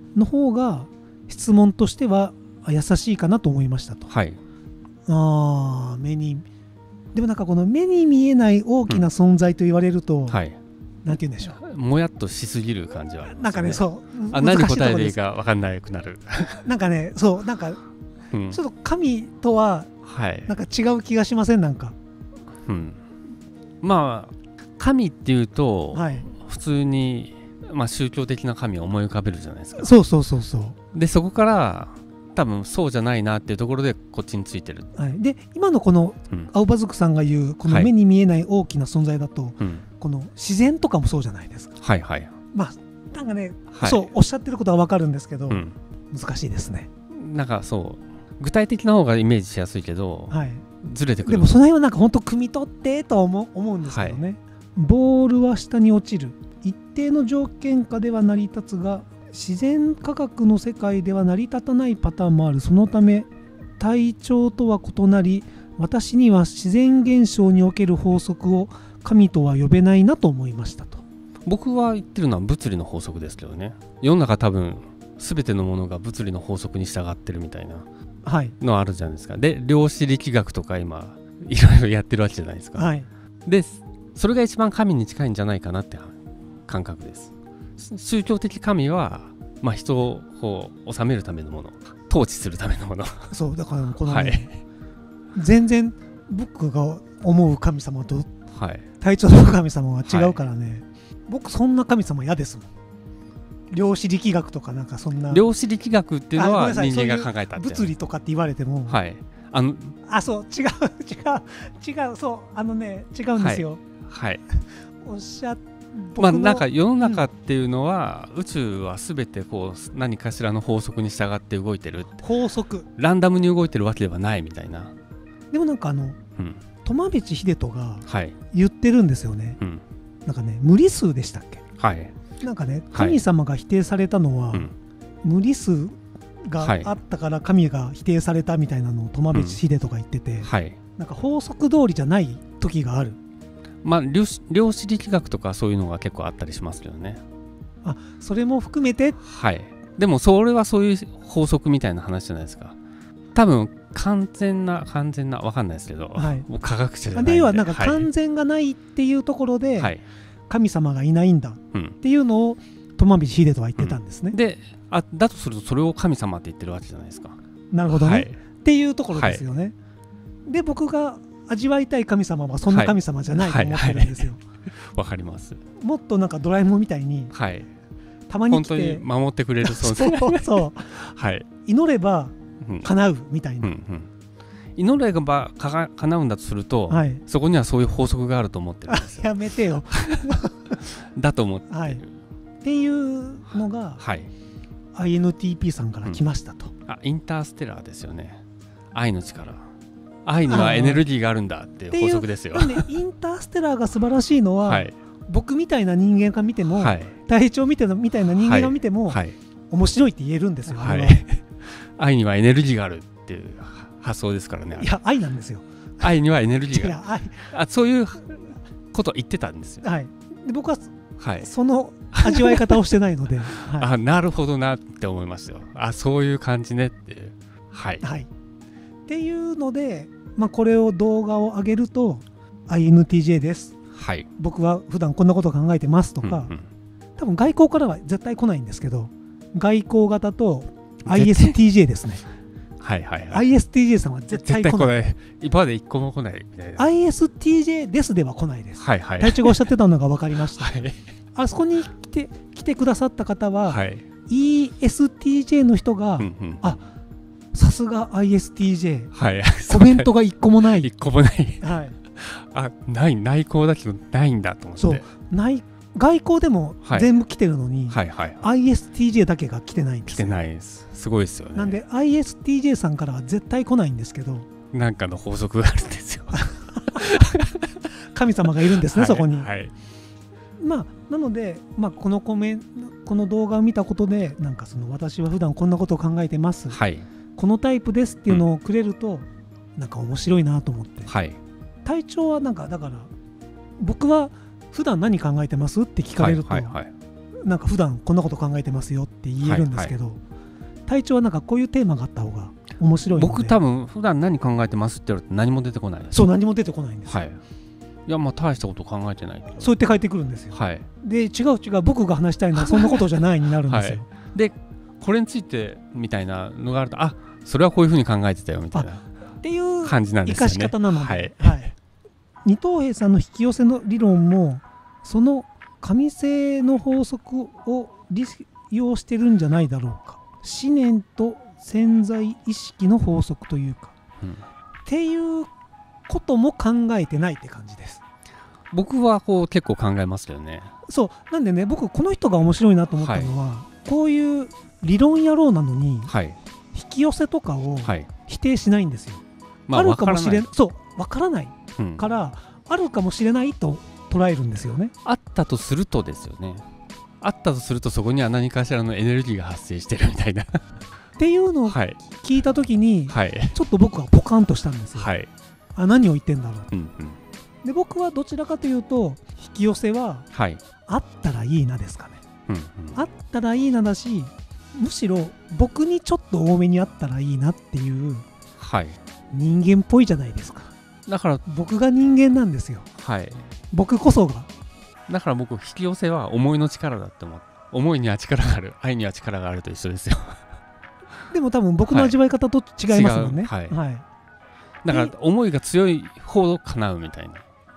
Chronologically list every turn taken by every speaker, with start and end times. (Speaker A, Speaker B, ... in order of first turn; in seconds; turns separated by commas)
Speaker A: 0.1-4.1, Speaker B: 4.1-4.4, Speaker A: 5.1-6.4, Speaker A: 7.1-10.4, Speaker B: 10.3-10.6, Speaker A: 11.0-11.6, Speaker B: 11.4-16.7, Speaker A: 13.2-15.2, Speaker A: 16.6-17.8, Speaker B: 18.3-18.6, Speaker A: 18.5-19.9, Speaker B: 20.1-20.5, Speaker A: 20.4-21.9, Speaker B: 22.6-23.0, Speaker B: 23.8-29.9, Speaker A: 25.9-26.3, Speaker A: 29.8-30.8, Speaker B: 30.9-34.9, Speaker A: 34.9-41.8, Speaker B: 41.8-42.3, Speaker A: 42.5-46.9, Speaker B: 43.7-44.0, Speaker B: 45.5-45.7, Speaker B: 47.1-51.5, Speaker A: 50.3-50.6, Speaker A: 51.2-71.0, Speaker B: 53.8-54.2, Speaker B: 71.4-77.8, Speaker A: 78.2-78.5, Speaker B: 78.6-82.8, Speaker A: 82.8-83.1, Speaker B: 83.4-93.3, Speaker A: 93.3-94.5, Speaker B: 94.0-94.5, Speaker A: 95.3-98.3, Speaker B: 98.5-98.8, Speaker A: 99.0-102.7, Speaker B: 100.0-100.4, Speaker A: 103.7-105.4, Speaker B: 105.3-107.9, Speaker A: 106.3-109.0, Speaker B: 108.9-110.0, Speaker A: 110.0-113.8, Speaker B: 113.3-114.4, Speaker A: 115.0-117.2, Speaker B: 116.2-122.2, Speaker A: 122.2-122.9, Speaker B: 123.0-124.9, Speaker A: 125.5-126.2, Speaker A: 126.8-129.6, Speaker B: 128.1-128.3, Speaker A: 130.2-131.6, Speaker B: 131.8-132.1, Speaker A: 132.4-134.7, Speaker B: 132.9-133.2, Speaker A: 135.2-143.2, Speaker B: 136.6-136.9, Speaker B: 139.3-139.6, Speaker B: 140.4-140.8, Speaker B: 143.8-147.2, Speaker A: 147.8-149.2, Speaker B: 149.2-152.8, Speaker B: 153.3-158.1, Speaker A: 156.2-156.5, Speaker A: 157.1-159.9, Speaker B: 159.8-160.0, Speaker A: 160.5-164.4, Speaker B: 163.8-167.4, Speaker A: 167.7-169.7, Speaker B: 167.9-168.4, Speaker B: 169.1-169.4, Speaker A: 170.5-174.4, Speaker B: 172.7-175.6, Speaker A: 175.8-177.3, Speaker B: 177.3-177.7, Speaker A: 178.3-179.0, Speaker B: 178.5-181.5, Speaker A: 179.6-180.9, Speaker A: 181.6-183.7, Speaker B: 182.6-182.9, Speaker B: 183.6-184.1, Speaker B: 184.8-189.3, Speaker A: 186.9-187.2, Speaker A: 188.9-190.8, Speaker B: 189.9-192.1, Speaker A: 191.7-192.0, Speaker A: 192.6-194.0, Speaker B: 194.0-194.3, Speaker A: 194.9-196.7, Speaker B: 196.8-198.4, Speaker B: 198.9-199.6, Speaker B: 200.2-202.9, Speaker A: 200.5-201.0, Speaker A: 201.9-209.2, Speaker B: 204.6-204.9, Speaker B: 206.8-207.2, Speaker B: 208.4-209.4, Speaker A: 209.7-211.2, Speaker B: 210.7-214.9, Speaker A: 214.7-215.7, Speaker B: 216.0-218.4, Speaker A: 216.7-217.4, Speaker B: 218.9-219.8, Speaker A: 219.8-223.9, Speaker B: 221.2-221.5, Speaker B: 222.1-222.8, Speaker B: 223.6-228.0, Speaker A: 228.0-228.3, Speaker A: 229.1-233.7, Speaker B: 233.9-234.3, Speaker A: 234.4-236.5, Speaker B: 236.2-236.6, Speaker A: 237.2-242.2, Speaker B: 241.1-241.6, Speaker B: 242.8-243.4, Speaker A: 243.3-245.0, Speaker B: 244.3-246.9, Speaker A: 246.8-250.7, Speaker B: 248.8-249.6, Speaker B: 250.5-251.0, Speaker A: 251.3-256.8, Speaker B: 253.7-254.0, Speaker B: 256.2-256.7, Speaker A: 257.5-259.1, Speaker B: 259.1-260.1, Speaker A: 259.7-260.9, Speaker B: 260.7-265.0, Speaker A: 261.6-262.0, Speaker A: 264.8-270.4, Speaker B: 266.8-267.1, Speaker B: 267.9-268.4, Speaker B: 270.1-271.8, Speaker A: 271.5-274.5, Speaker B: 274.7-277.7, Speaker A: 276.4-277.1, Speaker A: 278.1-279.5, Speaker B: 278.8-279.7, Speaker A: 280.6-286.8, Speaker B: 286.7-287.1, Speaker A: 287.4-291.1, Speaker B: 291.1-291.4, Speaker A: 291.8-293.1, Speaker A: 293.8-296.8, Speaker B: 296.1-296.9, Speaker A: 297.4-300.2, Speaker B: 299.4-299.9, Speaker A: 300.9-303.6, Speaker B: 303.1-306.3, Speaker A: 306.1-307.2, Speaker B: 307.1-307.4, Speaker B: 308.1-309.7, Speaker A: 309.6-314.1, Speaker B: 310.5-310.9, Speaker B: 312.6-313.0, Speaker B: 313.7-319.0, Speaker A: 318.7-321.7, Speaker B: 319.8-321.7, Speaker A: 322.4-333.9, Speaker A: 334.9-335.5, Speaker A: 336.1-338.0, Speaker B: 338.7-340.7, Speaker A: 340.9-346.1, Speaker B: 343.0-343.3, Speaker B: 346.1-346.4, Speaker A: 346.7-354.9, Speaker B: 347.8-348.1, Speaker B: 349.7-350.5, Speaker B: 351.8-352.0, Speaker B: 355.0-356.6, Speaker B: 357.2-360.6, Speaker A: 361.2-365.1, Speaker B: 361.6-362.0, Speaker B: 363.1-363.5, Speaker B: 364.9-365.3, Speaker A: 365.7-366.7, Speaker B: 366.7-367.2, Speaker A: 367.6-370.3, Speaker B: 370.3-370.6, Speaker A: 370.9-372.2, Speaker B: 372.5-373.0, Speaker A: 372.9-378.2, Speaker B: 378.6-379.0, Speaker A: 379.3-380.7, Speaker B: 381.1-381.4, Speaker A: 381.4-382.9, Speaker B: 383.0-383.4, Speaker A: 383.7-384.5, Speaker B: 385.1-390.4, Speaker A: 391.3-394.0, Speaker B: 391.9-392.1, Speaker B: 392.9-393.8, Speaker B: 394.8-397.4